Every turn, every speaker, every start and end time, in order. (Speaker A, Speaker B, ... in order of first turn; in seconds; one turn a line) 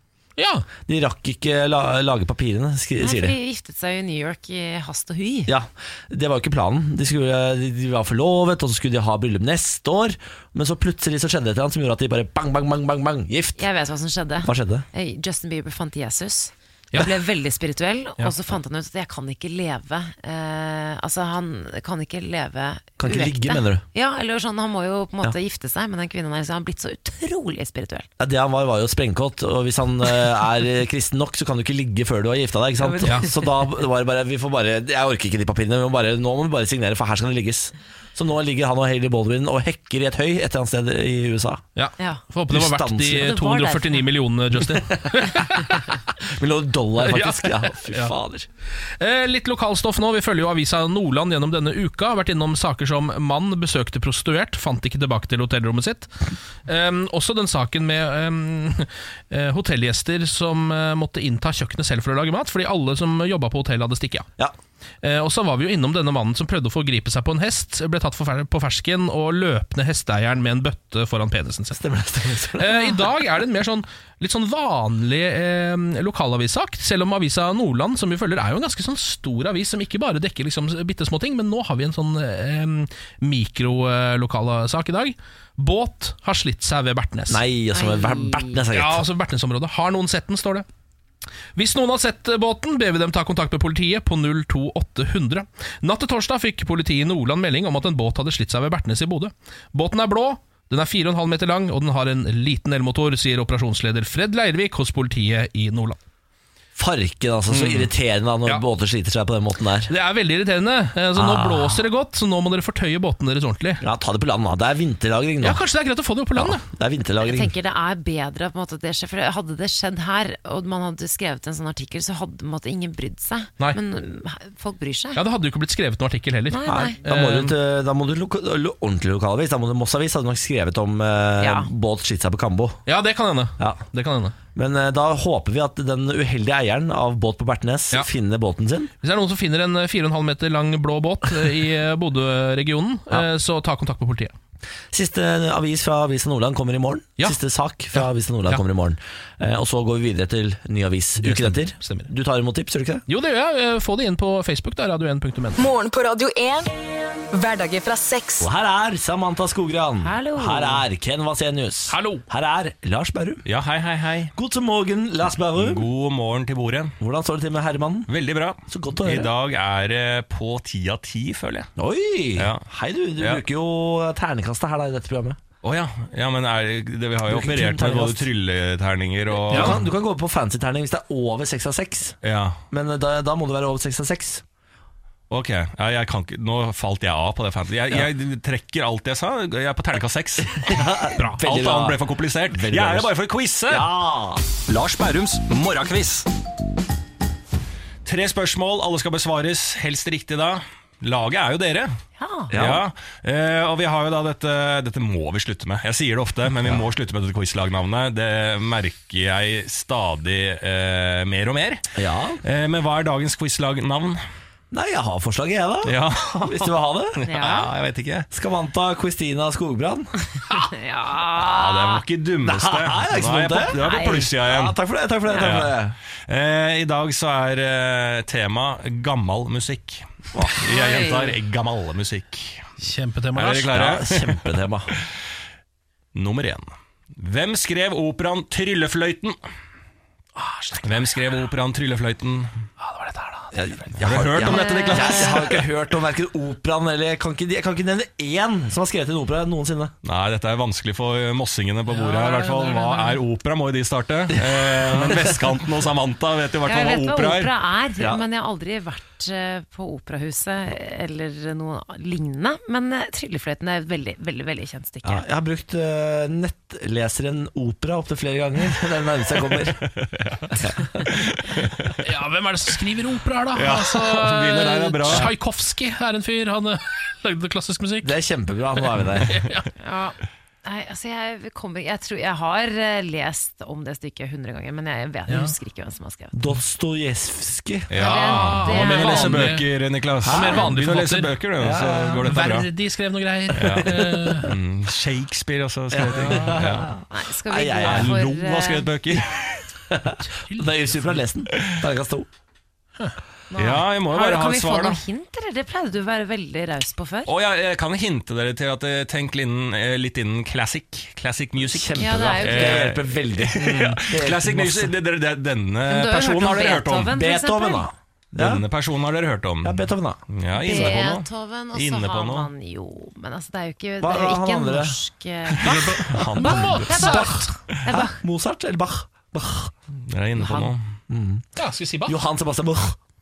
Speaker A: 0.4-0.7
Speaker B: 0.8-3.4
Speaker C: 3.0-5.5
Speaker B: 5.5-13.7
Speaker C: 13.6-28.1
Speaker B: 14.4-14.8
Speaker B: 23.0-23.8
Speaker B: 28.2-41.6
Speaker C: 32.8-33.2
Speaker A: 41.8-45.9
Speaker C: 42.0-42.2
Speaker B: 42.5-43.3
Speaker C: 43.1-44.0
Speaker B: 46.2-48.5
Speaker A: 47.0-48.1
Speaker A: 48.8-64.2
Speaker A: 65.0-71.8
Speaker B: 71.7-72.9
Speaker A: 72.6-87.4
Speaker B: 87.3-89.0
Speaker C: 87.7-88.6
Speaker A: 88.7-90.6
Speaker A: 91.5-106.0
Speaker B: 106.8-109.9
Speaker A: 107.5-107.9
Speaker A: 109.9-113.8
Speaker B: 111.2-111.9
Speaker B: 113.8-115.6
Speaker A: 115.4-116.6
Speaker B: 116.3-117.5
Speaker C: 117.2-125.2
Speaker A: 125.2-127.5
Speaker C: 126.5-127.0
Speaker B: 126.6-132.8
Speaker C: 131.4-131.7
Speaker A: 132.9-134.3
Speaker B: 134.5-138.9
Speaker A: 139.0-144.3
Speaker B: 144.9-153.0
Speaker A: 147.9-148.6
Speaker A: 151.2-152.1
Speaker A: 153.1-155.6
Speaker D: 155.6-156.7
Speaker D: 157.3-158.5
Speaker B: 158.4-163.4
Speaker C: 160.0-160.8
Speaker A: 161.9-162.2
Speaker E: 163.4-164.3
Speaker B: 164.3-165.9
Speaker E: 165.5-166.9
Speaker B: 167.0-168.1
Speaker E: 168.1-171.7
Speaker B: 168.7-169.3
Speaker B: 171.8-175.4
Speaker E: 172.3-172.6
Speaker E: 173.2-173.4
Speaker E: 175.6-179.8
Speaker B: 177.2-178.3
Speaker B: 179.4-182.2
Speaker A: 179.5-179.8
Speaker E: 182.2-182.6
Speaker B: 182.7-184.4
Speaker E: 185.3-193.9
Speaker B: 190.6-193.1
Speaker A: 191.2-191.4
Speaker B: 193.7-194.4
Speaker E: 194.6-196.2
Speaker E: 198.0-201.9
Speaker C: 202.2-202.5
Speaker B: 202.5-202.8
Speaker E: 202.5-214.2
Speaker B: 211.9-212.4
Speaker B: 214.7-217.3
Speaker E: 215.8-218.3
Speaker C: 217.2-217.7
Speaker B: 218.3-220.1
Speaker C: 220.4-222.0
Speaker E: 221.4-224.8
Speaker B: 222.4-225.9
Speaker C: 223.8-224.3
Speaker C: 225.3-225.6
Speaker E: 225.3-232.7
Speaker B: 230.3-230.6
Speaker C: 230.7-231.3
Speaker A: 232.8-233.8
Speaker E: 233.4-234.3
Speaker B: 233.6-234.9
Speaker E: 236.1-239.4
Speaker A: 240.4-241.3
Speaker E: 240.8-242.6
Speaker A: 242.8-243.6
Speaker B: 243.5-249.9
Speaker E: 244.0-245.7
Speaker C: 244.4-245.4
Speaker E: 250.0-257.5
Speaker A: 251.9-253.2
Speaker B: 254.5-255.3
Speaker C: 256.6-265.2
Speaker B: 265.0-269.8
Speaker E: 269.9-270.5
Speaker B: 270.5-271.1
Speaker E: 271.3-271.9
Speaker A: 272.0-278.1
Speaker E: 273.5-275.3
Speaker B: 278.0-279.4
Speaker A: 278.8-279.7
Speaker C: 279.8-286.3
Speaker A: 285.3-285.5
Speaker B: 286.3-287.9
Speaker E: 287.9-292.7
Speaker A: 288.0-289.7
Speaker C: 288.0-289.5
Speaker B: 290.2-290.7
Speaker A: 290.2-291.3
Speaker B: 291.6-292.4
Speaker A: 292.2-294.5
Speaker E: 293.5-296.9
Speaker B: 293.6-294.5
Speaker B: 295.9-298.2
Speaker C: 297.1-298.9
Speaker E: 297.8-299.6
Speaker B: 299.9-302.3
Speaker A: 300.3-301.2
Speaker C: 303.5-307.3
Speaker E: 303.6-305.0
Speaker E: 307.2-317.2
Speaker B: 311.6-314.9
Speaker C: 311.9-312.9
Speaker C: 315.8-317.9
Speaker B: 317.1-318.6
Speaker E: 318.3-322.5
Speaker B: 319.6-321.1
Speaker C: 320.6-325.8
Speaker B: 324.0-324.9
Speaker B: 325.6-329.7
Speaker A: 325.6-327.5
Speaker E: 326.1-326.6
Speaker C: 326.4-328.2
Speaker E: 330.1-330.8
Speaker C: 330.4-330.7
Speaker B: 331.1-331.5
Speaker A: 331.6-332.1
Speaker B: 332.1-333.0